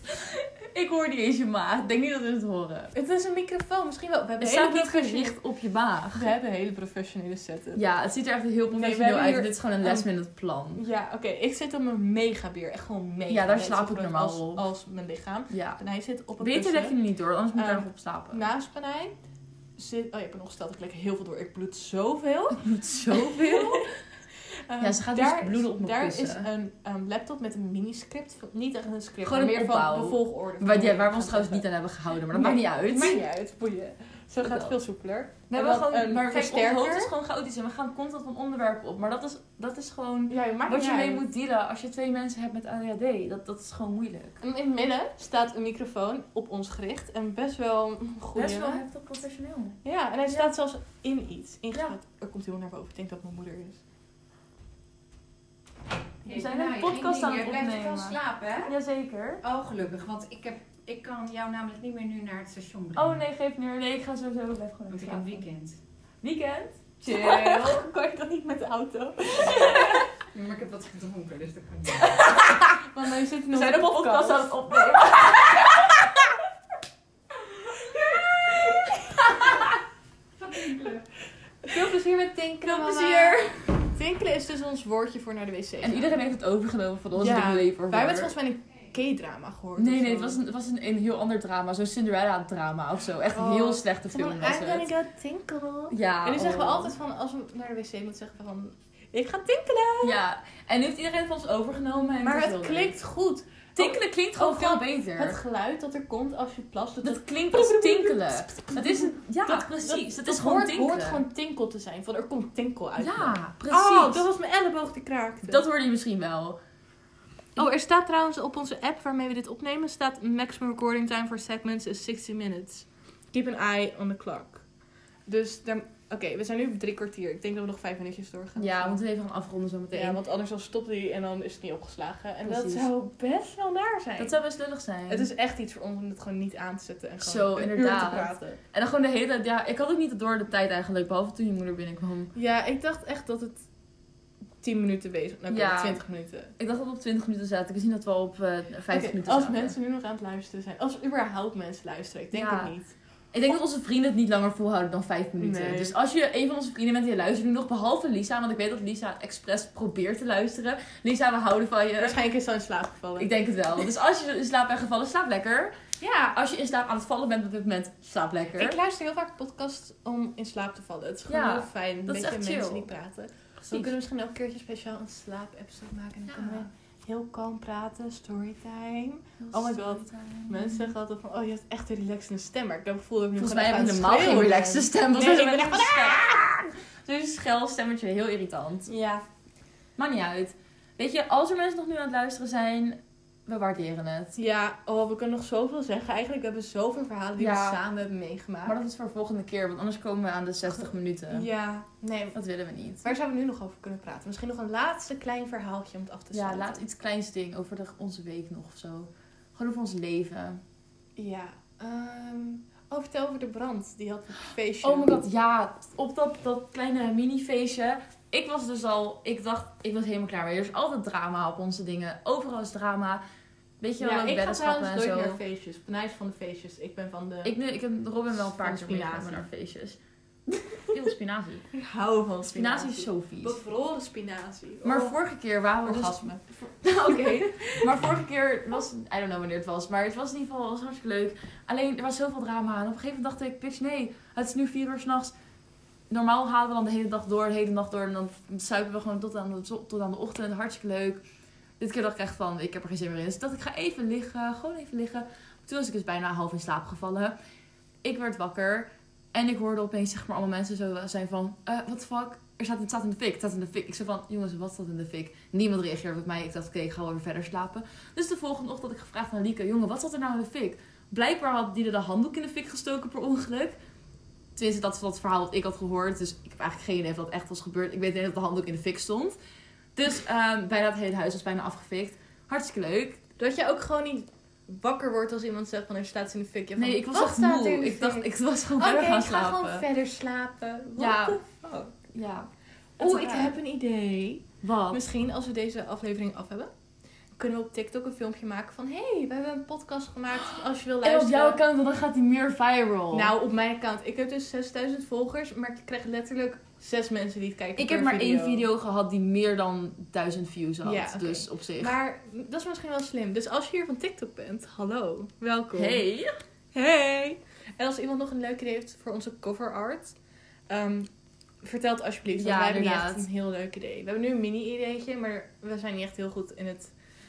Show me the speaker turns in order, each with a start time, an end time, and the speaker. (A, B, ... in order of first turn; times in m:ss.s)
0:00.1-0:02.9 A
0:02.9-0:05.4 B
0:04.4-0:06.3 A
0:06.1-0:07.8 B
0:07.7-0:10.8 A
0:08.7-0:10.1 B
0:10.8-0:17.0 B
0:13.3-0:14.6 A
0:15.5-0:15.8 A
0:16.4-0:18.4 A
0:17.5-0:19.2 B
0:19.8-0:23.9 B
0:22.6-0:23.9 A
0:24.7-0:31.7 B
0:24.8-0:26.5 A
0:29.2-0:33.3 A
0:32.3-0:37.1 B
0:34.4-0:34.8 A
0:35.5-0:44.4 A
0:40.3-0:41.2 B
0:44.4-0:48.8 B
0:48.3-0:50.5 A
0:49.8-0:53.8 B
0:56.2-0:58.7 C
0:56.3-0:59.4 A
0:59.4-1:03.2 C
1:03.0-1:05.4 A
1:04.9-1:05.8 C
1:06.2-1:07.8 A
1:07.0-1:10.0 B
1:09.4-1:12.2 C
1:12.0-1:15.4 B
1:12.1-1:12.8 A
1:13.5-1:16.1 A
1:17.6-1:19.6 B
1:19.2-1:19.7 A
1:20.6-1:21.0 C
1:21.6-1:26.1 B
1:22.6-1:23.7 A
1:25.8-1:28.3 A
1:27.2-1:30.4 B
1:29.8-1:34.9 A
1:33.3-1:40.2 B
1:35.9-1:36.9 A
1:40.0-1:43.0 A
1:42.2-1:55.6 B
1:43.8-1:45.4 A
1:47.0-1:51.2 A
1:53.0-1:54.2 A
1:55.5-1:56.6 A
1:57.6-2:04.6 B
2:05.3-2:09.0 B
2:08.6-2:10.2 A
2:09.9-2:14.4 B
2:12.4-2:12.9 A
2:14.2-2:15.3 A
2:15.1-2:18.6 B
2:17.2-2:22.3 A
2:22.3-2:23.6 B
2:24.6-2:26.5 B
2:25.5-2:26.0 A
2:26.6-2:29.7 A
2:28.9-2:32.9 B
2:32.3-2:32.7 A
2:33.3-2:42.2 A
2:35.4-2:36.0 B
2:42.0-2:43.3 B
2:43.2-2:45.8 A
2:46.0-2:46.4 B
2:46.3-2:48.8 A
2:48.5-3:06.4 B
2:51.3-2:52.9 A
2:53.6-2:53.9 A
2:56.3-2:56.7 A
2:59.4-3:00.9 A
3:03.4-3:08.9 A
3:08.9-3:09.2 B
3:10.0-3:14.4 A
3:14.4-3:18.8 B
3:17.4-3:17.8 A
3:18.6-3:21.5 A
3:20.8-3:22.4 B
3:22.3-3:23.1 A
3:23.0-3:26.8 B
3:26.3-3:30.6 A
3:31.2-3:35.2 B
3:34.8-3:43.2 A
3:43.8-3:45.4 A
3:44.0-3:47.5 B
3:47.4-3:50.0 A
3:48.3-3:49.5 B
3:50.9-3:51.6 A
3:51.7-3:55.2 B
3:52.5-3:53.6 A
3:54.8-4:05.3 A
3:55.8-3:56.4 B
3:57.1-3:57.9 B
4:06.1-4:11.2 A
4:11.8-4:17.3 A
4:18.0-4:33.8 A
4:34.5-4:39.4 A
4:39.9-4:43.2 A
4:43.4-4:52.0 B
4:46.8-4:49.8 A
4:51.0-4:51.4 A
4:52.1-4:53.6 A
4:53.0-4:56.7 B
4:54.6-4:55.0 A
4:57.4-5:01.6 B
5:01.0-5:03.3 A
5:03.1-5:08.6 B
5:07.8-5:12.0 A
5:10.8-5:16.0 B
5:15.7-5:16.3 A
5:16.7-5:20.2 B
5:20.7-5:21.1 B
5:21.6-5:26.9 B
5:22.4-5:23.2 A